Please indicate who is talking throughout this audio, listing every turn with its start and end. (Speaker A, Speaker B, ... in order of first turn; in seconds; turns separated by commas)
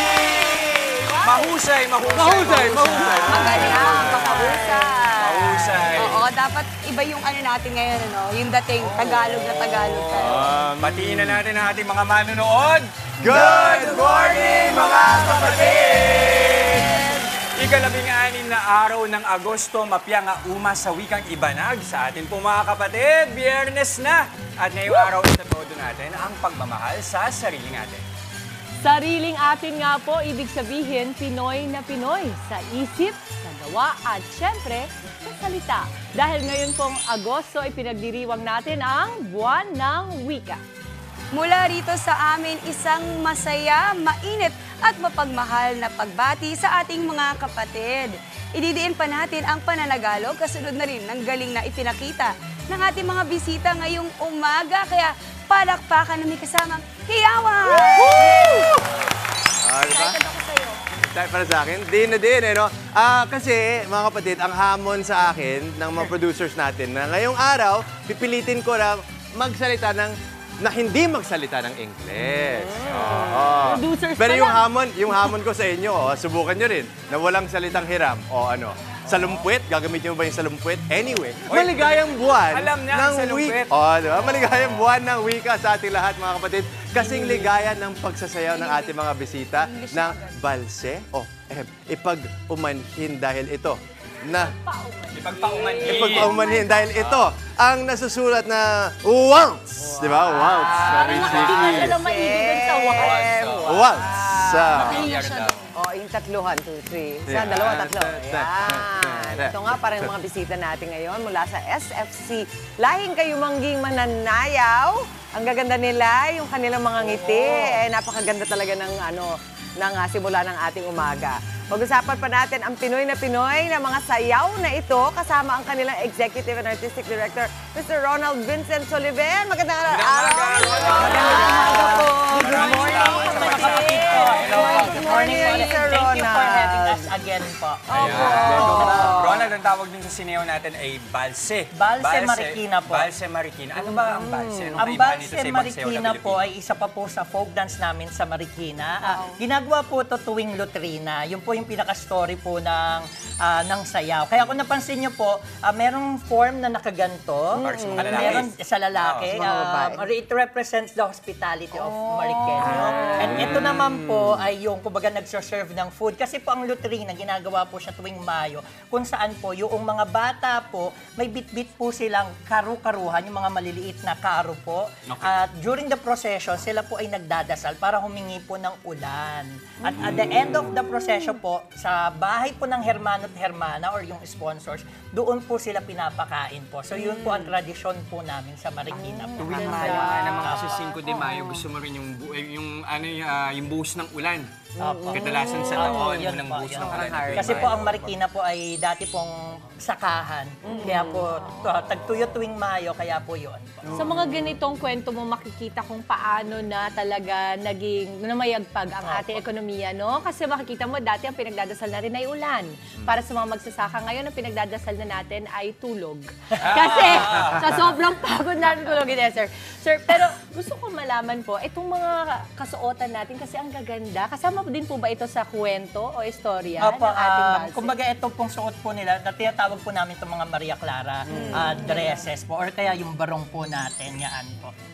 Speaker A: 0.6-1.5, Speaker B: 1.2-4.4, Speaker C: 2.1-4.7, Speaker A: 3.2-10.6, Speaker B: 5.1-6.3, Speaker B: 8.8-28.0, Speaker C: 10.1-11.4, Speaker C: 13.2-16.6, Speaker D: 28.8-40.6, Speaker A: 41.3-58.5, Speaker C: 57.7-58.7, Speaker C: 59.6-60.2, Speaker A: 59.8-60.8, Speaker C: 61.1-94.5, Speaker E: 72.8-73.5, Speaker B: 72.9-73.2, Speaker D: 73.4-74.7, Speaker B: 79.2-79.4, Speaker B: 81.5-83.8, Speaker A: 88.5-90.5, Speaker D: 94.4-96.2, Speaker B: 95.1-96.5, Speaker C: 95.8-102.0, Speaker A: 96.4-96.9, Speaker B: 97.0-97.3, Speaker E: 99.8-105.0, Speaker B: 100.7-101.6, Speaker D: 100.9-103.2, Speaker B: 102.9-105.7, Speaker C: 103.6-105.1, Speaker A: 104.8-105.5, Speaker E: 105.7-133.4, Speaker C: 107.3-110.0, Speaker C: 117.3-117.7, Speaker B: 129.9-135.1, Speaker F: 130.9-132.1, Speaker D: 130.9-134.9, Speaker F: 133.1-139.3, Speaker E: 134.4-137.1, Speaker E: 137.9-139.5, Speaker B: 137.9-146.5, Speaker F: 141.7-143.1, Speaker E: 143.8-144.8, Speaker F: 144.8-190.9, Speaker E: 157.6-158.4, Speaker B: 157.6-159.3, Speaker E: 159.3-160.1, Speaker E: 161.7-163.6, Speaker B: 163.1-163.9, Speaker B: 175.1-175.4, Speaker B: 179.9-180.7, Speaker E: 187.0-187.4, Speaker E: 188.9-190.7, Speaker B: 189.4-194.5, Speaker E: 194.8-196.2, Speaker F: 194.8-204.1, Speaker B: 195.1-198.1, Speaker E: 196.8-197.9, Speaker E: 200.7-201.3, Speaker D: 203.9-227.9, Speaker B: 216.6-217.9, Speaker F: 226.8-234.8, Speaker E: 231.3-231.8